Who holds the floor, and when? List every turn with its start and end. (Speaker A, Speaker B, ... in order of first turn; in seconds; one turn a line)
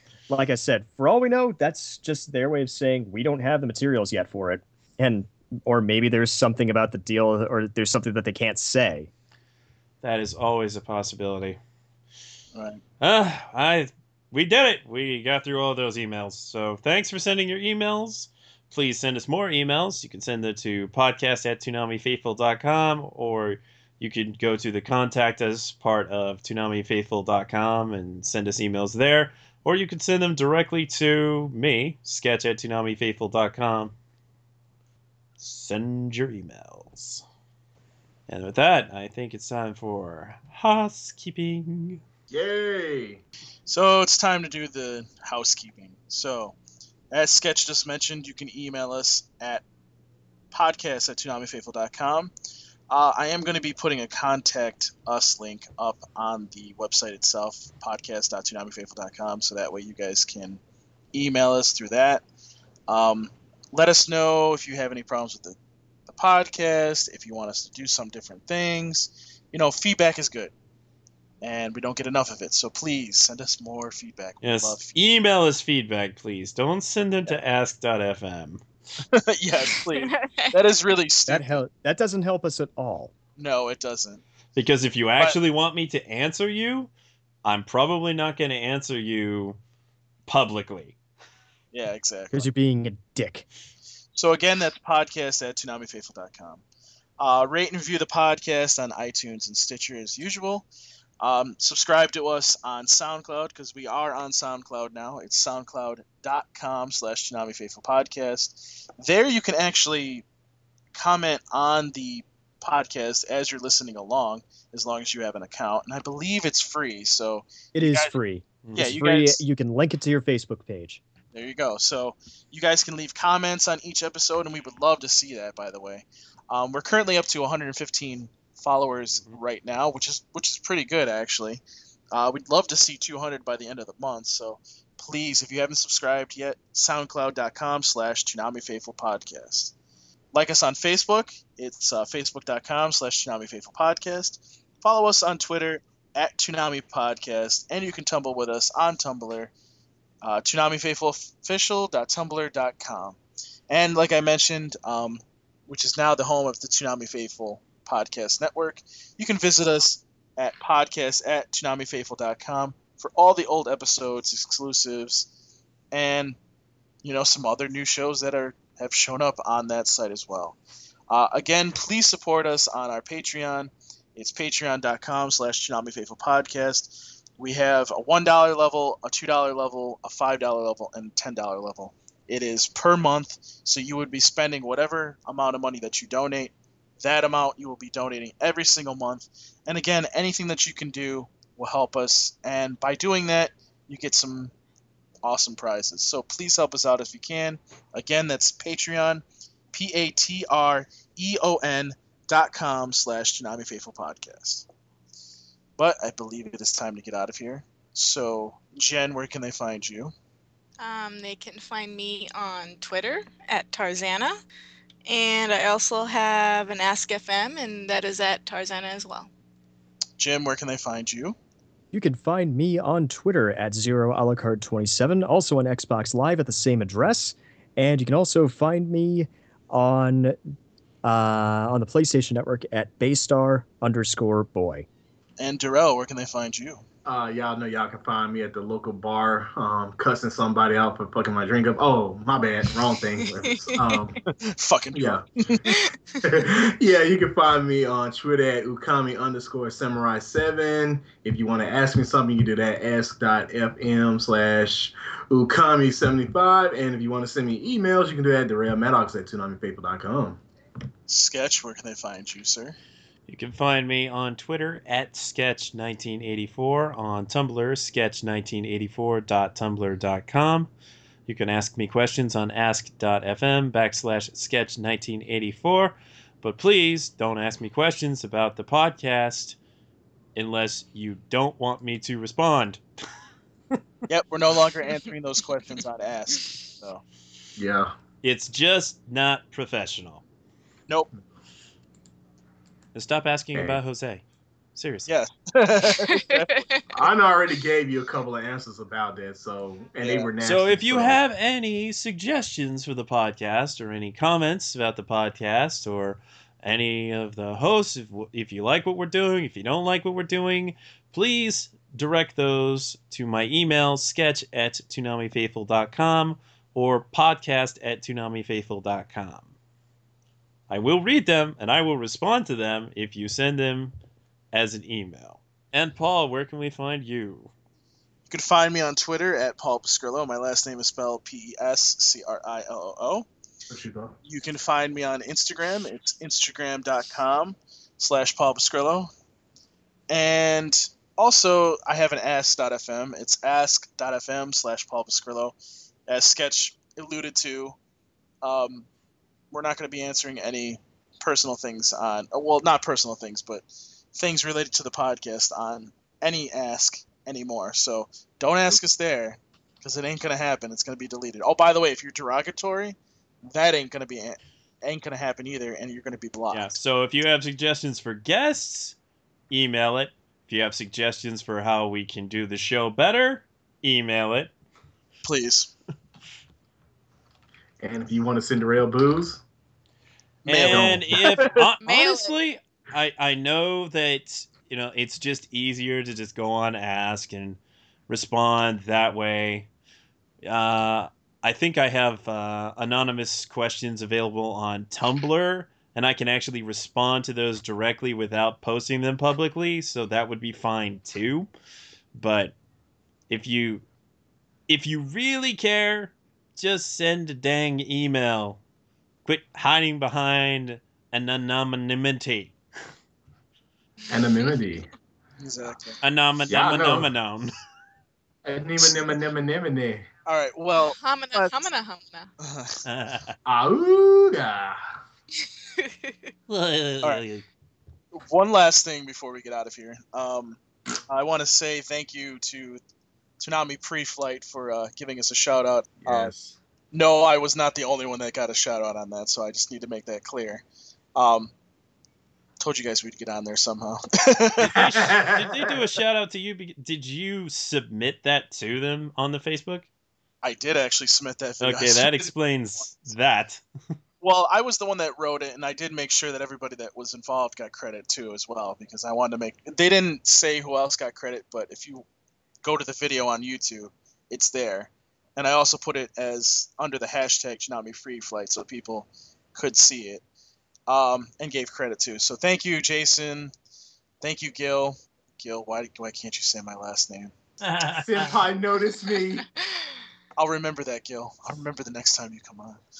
Speaker A: 0.3-9.1
Speaker B: 10.0-11.6
Speaker C: 12.5-12.8
Speaker B: 13.0-33.9
Speaker B: 35.4-37.2
Speaker B: 38.3-42.0
Speaker D: 42.3-43.2
Speaker C: 43.7-46.5
Speaker C: 47.1-49.6
Speaker C: 50.5-52.3
Speaker C: 52.9-60.6
Speaker C: 61.1-62.2
Speaker C: 62.9-65.6
Speaker C: 66.1-70.5
Speaker C: 71.4-74.9
Speaker B: 74.4-78.6
Speaker C: 79.1-81.6
Speaker E: 79.9-80.5
Speaker A: 81.3-83.1
Speaker C: 83.4-84.2
Speaker B: 84.5-86.9
Speaker B: 87.4-89.6
Speaker B: 90.3-90.9
Speaker C: 91.7-92.5
Speaker A: 92.3-93.4
Speaker C: 94.1-96.6
Speaker C: 97.2-100.7
Speaker C: 101.2-110.2
Speaker C: 110.9-118.1
Speaker A: 117.7-121.0
Speaker B: 118.6-118.9
Speaker C: 118.8-119.4
Speaker C: 121.3-139.7
Speaker C: 140.3-149.5
Speaker C: 150.2-153.2
Speaker C: 153.7-165.3
Speaker C: 165.9-166.3
Speaker C: 167.0-170.6
Speaker C: 171.1-194.5
Speaker C: 195.2-204.6
Speaker C: 205.8-210.1
Speaker E: 210.8-214.4
Speaker E: 215.1-219.3
Speaker C: 220.2-221.3
Speaker A: 221.9-230.4
Speaker A: 231.0-234.8
Speaker C: 235.4-236.8
Speaker D: 237.0-244.2
Speaker E: 243.4-243.8
Speaker C: 244.2-245.6
Speaker D: 244.9-245.2
Speaker E: 245.7-245.9
Speaker D: 246.2-260.4
Speaker C: 261.1-262.8
Speaker B: 263.3-270.7
Speaker B: 271.3-279.6
Speaker B: 280.3-282.8
Speaker C: 284.1-287.0
Speaker D: 287.6-287.9
Speaker B: 288.2-290.2
Speaker B: 292.9-294.2
Speaker D: 293.5-293.8
Speaker B: 294.8-295.1
Speaker C: 295.1-296.6
Speaker E: 296.0-296.8
Speaker D: 296.9-301.2
Speaker C: 300.0-300.3
Speaker B: 300.4-319.5
Speaker B: 320.7-323.9
Speaker B: 324.5-327.5
Speaker C: 328.3-333.3
Speaker D: 333.7-334.1
Speaker C: 334.2-339.1
Speaker C: 340.1-345.5
Speaker C: 346.1-347.8
Speaker C: 348.4-348.9
Speaker C: 349.5-366.8
Speaker B: 366.5-368.9
Speaker B: 369.5-374.5
Speaker C: 375.2-375.7
Speaker D: 377.8-379.4
Speaker C: 380.4-381.7
Speaker B: 380.4-389.7
Speaker D: 380.5-381.1
Speaker E: 381.8-382.3
Speaker B: 390.4-401.5
Speaker B: 402.1-402.5
Speaker B: 403.3-403.8
Speaker B: 404.7-408.6
Speaker B: 409.2-412.5
Speaker E: 414.0-414.6
Speaker D: 414.1-414.9
Speaker C: 415.4-416.0
Speaker B: 416.0-417.5
Speaker D: 416.5-417.1
Speaker D: 418.4-420.1
Speaker C: 420.2-421.6
Speaker E: 420.8-422.3
Speaker C: 422.4-422.8
Speaker B: 422.8-423.4
Speaker D: 423.4-424.8
Speaker E: 425.8-426.1
Speaker B: 426.5-427.4
Speaker C: 428.1-432.8
Speaker C: 433.4-436.3
Speaker D: 436.0-436.6
Speaker C: 436.9-440.6
Speaker C: 441.1-441.5
Speaker C: 442.6-444.9
Speaker B: 444.6-449.9
Speaker D: 444.7-445.8
Speaker C: 450.4-452.3
Speaker B: 451.6-453.6
Speaker C: 454.2-462.0
Speaker C: 462.6-470.2
Speaker C: 470.9-473.5
Speaker C: 474.2-477.3
Speaker B: 477.6-478.4
Speaker D: 477.9-479.4
Speaker C: 480.4-482.8